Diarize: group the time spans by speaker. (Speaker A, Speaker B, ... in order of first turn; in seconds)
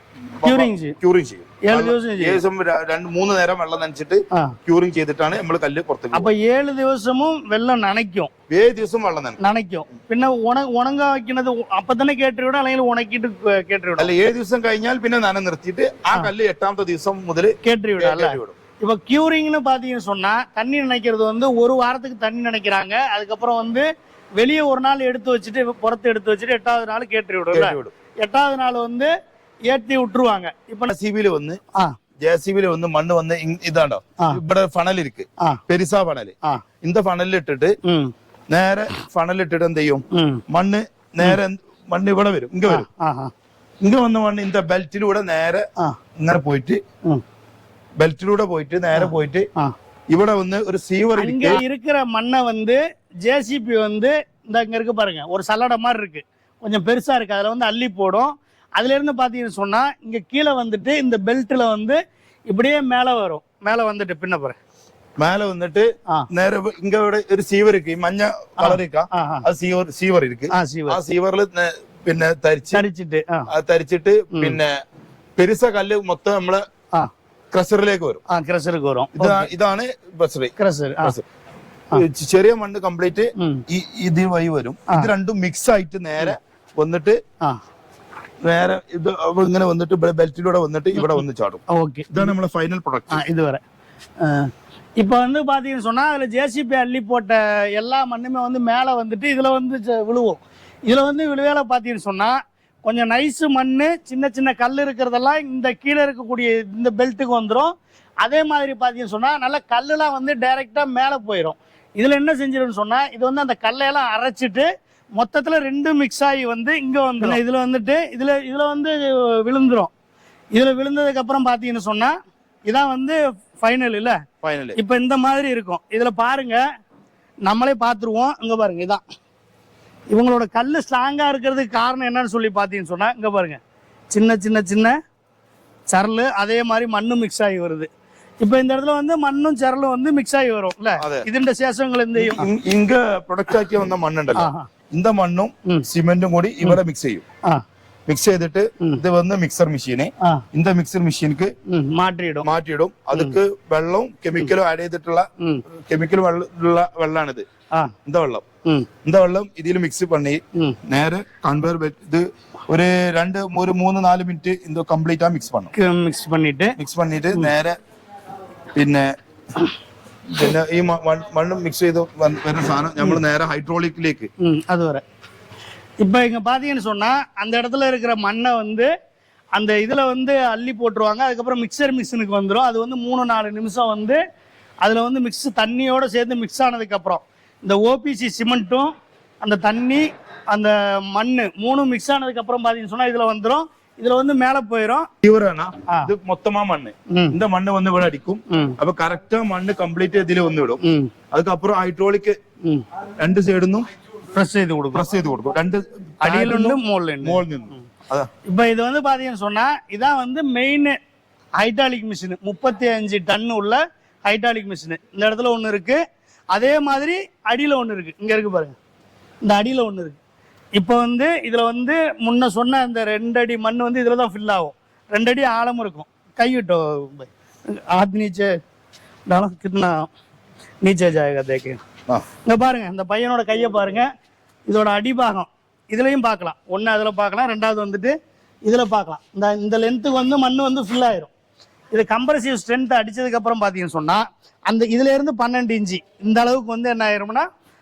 Speaker A: 0.4-6.3, 8.5-9.4, 14.0-18.6, 27.5-27.9, 30.9-31.6, 32.2-37.8, 38.5-42.9, 43.8-45.7, 46.2-46.8, 48.0-49.5, 50.1-51.6, 65.2-72.9, 73.5-74.8, 75.4-76.6, 77.5-78.2, 79.1-81.2, 81.9-87.2, 88.4-93.2, 124.4-124.8, 141.0-141.3, 142.1-147.2, 148.1-151.5, 152.4-157.5, 158.1-158.4, 159.0-165.7, 166.8-167.8, 168.8-169.1, 170.3-174.3, 195.2-202.4, 203.2-203.9, 204.9-208.3
Speaker B: 0.4-0.9, 1.6-2.4, 6.1-8.3, 9.4-14.1, 17.6-29.1, 29.7-30.9, 37.8-38.1, 40.1-40.4, 42.7-43.3, 49.0-49.7, 51.2-64.6, 68.6-69.5, 70.5-71.0, 72.7-73.5, 74.3-74.6, 78.3-79.5, 80.6-81.2, 83.4-83.6, 91.7-92.3, 93.1-93.6, 94.2-119.9, 120.5-122.1, 122.7-124.2, 124.8-126.6, 127.5-129.0, 130.1-135.0, 135.9-137.9, 138.4-142.5, 144.4-144.7, 151.7-152.5, 155.4-155.6, 165.7-166.8, 174.4-175.0, 176.0-178.9, 179.6-184.2, 184.8-195.1, 197.1-197.4, 198.5-198.8, 200.8-201.1, 204.3-205.1, 206.2-207.4, 208.5-211.0, 211.6-216.0, 216.5-218.8, 219.4-220.2, 220.8-228.6, 229.3-230.1, 230.8-231.8, 232.4-234.1, 234.7-241.3, 241.9-247.5